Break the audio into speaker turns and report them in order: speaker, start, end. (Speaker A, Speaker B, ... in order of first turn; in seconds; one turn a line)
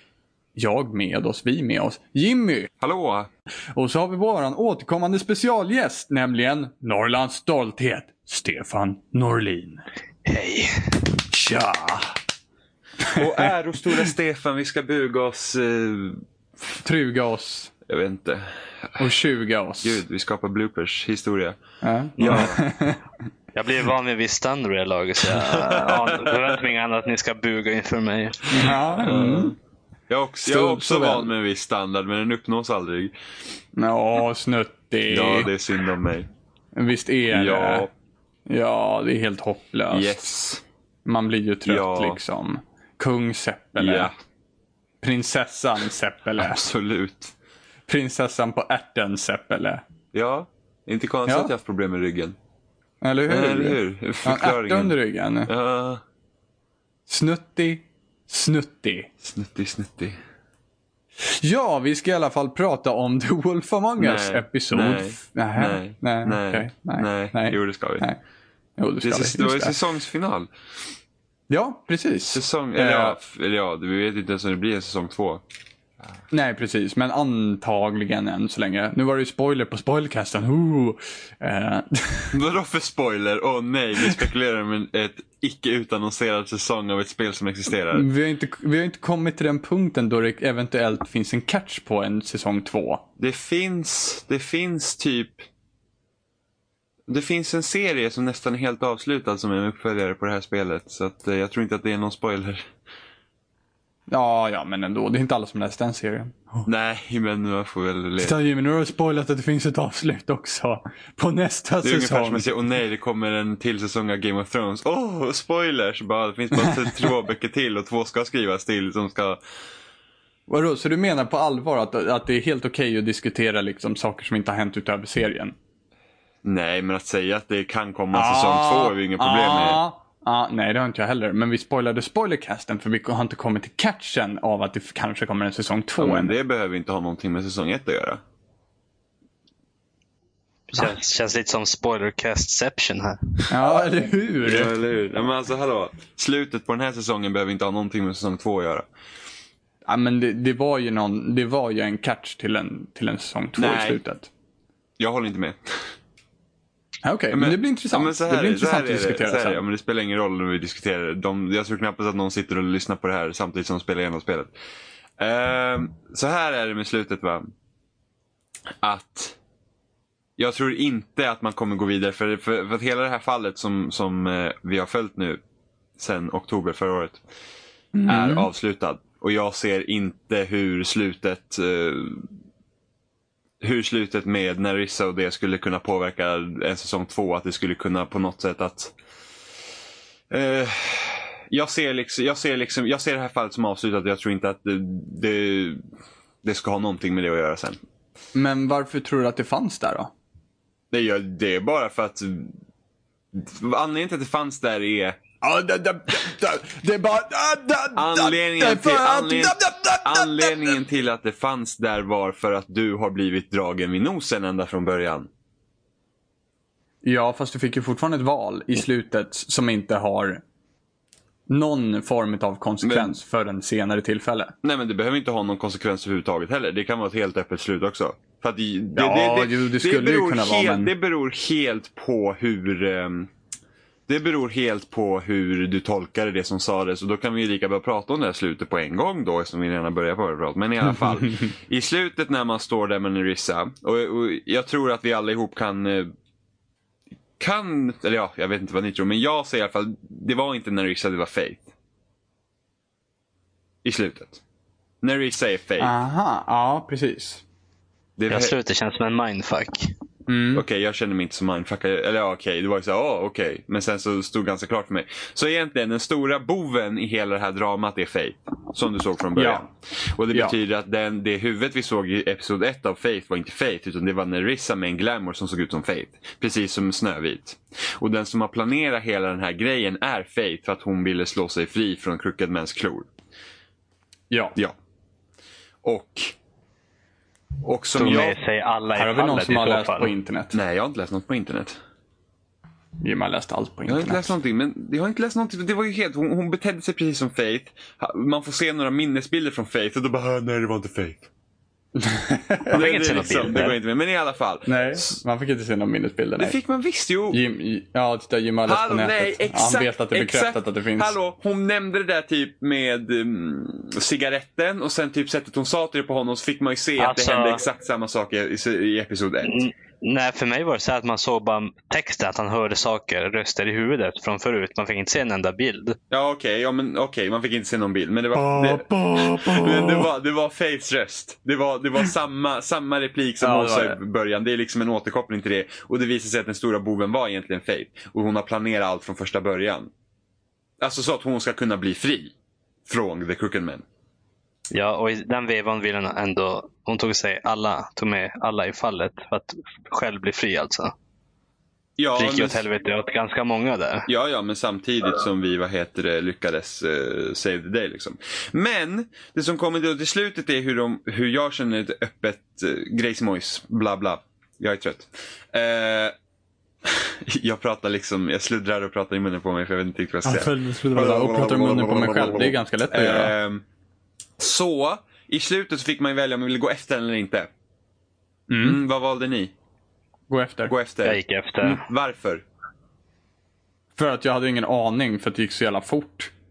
Speaker A: 0.6-2.7
Speaker B: 2.8-3.3
Speaker A: 3.7-9.8
Speaker C: 10.2-11.0
Speaker A: 11.3-12.2
Speaker B: 13.1-16.2
Speaker A: 16.8-17.7
Speaker B: 17.9-19.0
Speaker A: 19.0-20.0
Speaker B: 19.8-21.6
Speaker A: 21.8-23.0
Speaker C: 22.2-22.6
Speaker B: 22.2-22.6
Speaker C: 23.6-28.8
Speaker B: 25.3-26.7
Speaker A: 28.5-29.5
Speaker B: 29.0-29.6
Speaker B: 30.1-33.1
Speaker A: 30.4-31.3
Speaker A: 33.8-35.5
Speaker B: 35.1-36.3
Speaker A: 36.8-37.9
Speaker B: 37.3-37.9
Speaker A: 38.5-40.3
Speaker B: 39.9-40.6
Speaker A: 41.0-44.1
Speaker B: 41.7-42.2
Speaker B: 43.8-44.1
Speaker A: 45.0-46.7
Speaker B: 46.4-47.3
Speaker A: 47.9-49.8
Speaker B: 50.1-52.4
Speaker A: 51.2-51.5
Speaker A: 53.0-55.5
Speaker B: 53.3-56.0
Speaker A: 57.1-59.1
Speaker B: 59.2-60.2
Speaker A: 61.2-68.2
Speaker B: 64.0-68.1
Speaker A: 68.8-69.7
Speaker B: 69.0-70.5
Speaker A: 71.5-73.2
Speaker B: 72.3-75.4
Speaker A: 76.3-82.3
Speaker B: 82.3-88.1
Speaker A: 87.9-93.0
Speaker B: 93.2-95.5
Speaker B: 97.1-102.7
Speaker A: 104.1-106.7
Speaker B: 106.6-108.4
Speaker A: 108.2-112.5
Speaker B: 111.8-119.4
Speaker A: 120.5-125.5
Speaker B: 126.4-129.8
Speaker A: 128.1-136.3
Speaker B: 136.0-138.2
Speaker C: 140.7-143.5
Speaker A: 143.5-144.7
Speaker B: 144.4-148.9
Speaker A: 149.9-154.3
Speaker B: 153.6-154.0
Speaker B: 155.0-155.9
Speaker A: 157.1-159.6
Speaker B: 157.3-164.5
Speaker B: 165.2-167.5
Speaker B: 168.8-169.4
Speaker B: 170.4-175.4
Speaker B: 176.0-177.2
Speaker A: 177.9-178.5
Speaker B: 178.1-182.3
Speaker B: 183.6-188.9
Speaker B: 190.3-195.8
Speaker B: 196.4-197.8
Speaker A: 198.3-200.1
Speaker B: 200.9-202.5
Speaker B: 203.3-205.2
Speaker A: 205.4-210.8
Speaker B: 207.9-215.3
Speaker A: 217.0-220.4
Speaker A: 221.5-224.6
Speaker B: 222.8-223.2
Speaker B: 224.6-233.3
Speaker A: 228.9-230.9
Speaker B: 234.1-246.1
Speaker B: 247.4-251.7
Speaker B: 253.8-254.4
Speaker B: 255.0-255.9
Speaker A: 255.8-257.4
Speaker B: 258.2-258.6
Speaker C: 258.3-259.9
Speaker A: 260.3-260.6
Speaker B: 260.5-283.1
Speaker A: 269.4-269.6
Speaker A: 284.3-284.6
Speaker B: 285.8-286.3
Speaker B: 287.6-288.4
Speaker C: 288.0-290.1
Speaker A: 288.9-290.6
Speaker B: 290.5-291.8
Speaker A: 293.0-294.3
Speaker B: 293.9-301.3
Speaker A: 302.0-302.8
Speaker C: 302.7-303.8
Speaker B: 302.7-305.2
Speaker A: 304.7-306.6
Speaker B: 306.4-307.4
Speaker A: 307.3-311.1
Speaker B: 308.6-319.6
Speaker C: 317.0-317.6
Speaker C: 319.5-325.9
Speaker B: 326.1-339.9
Speaker A: 328.3-330.1
Speaker A: 333.4-334.0
Speaker B: 340.8-342.3
Speaker B: 342.9-343.8
Speaker C: 344.7-350.9
Speaker B: 352.0-352.6
Speaker C: 352.2-354.1
Speaker B: 354.1-366.1
Speaker B: 366.9-373.6
Speaker A: 370.2-373.4
Speaker B: 374.4-377.5
Speaker A: 378.5-378.8
Speaker B: 378.6-379.5
Speaker A: 380.3-380.7
Speaker B: 380.7-382.4
Speaker C: 381.0-381.8
Speaker A: 383.9-386.3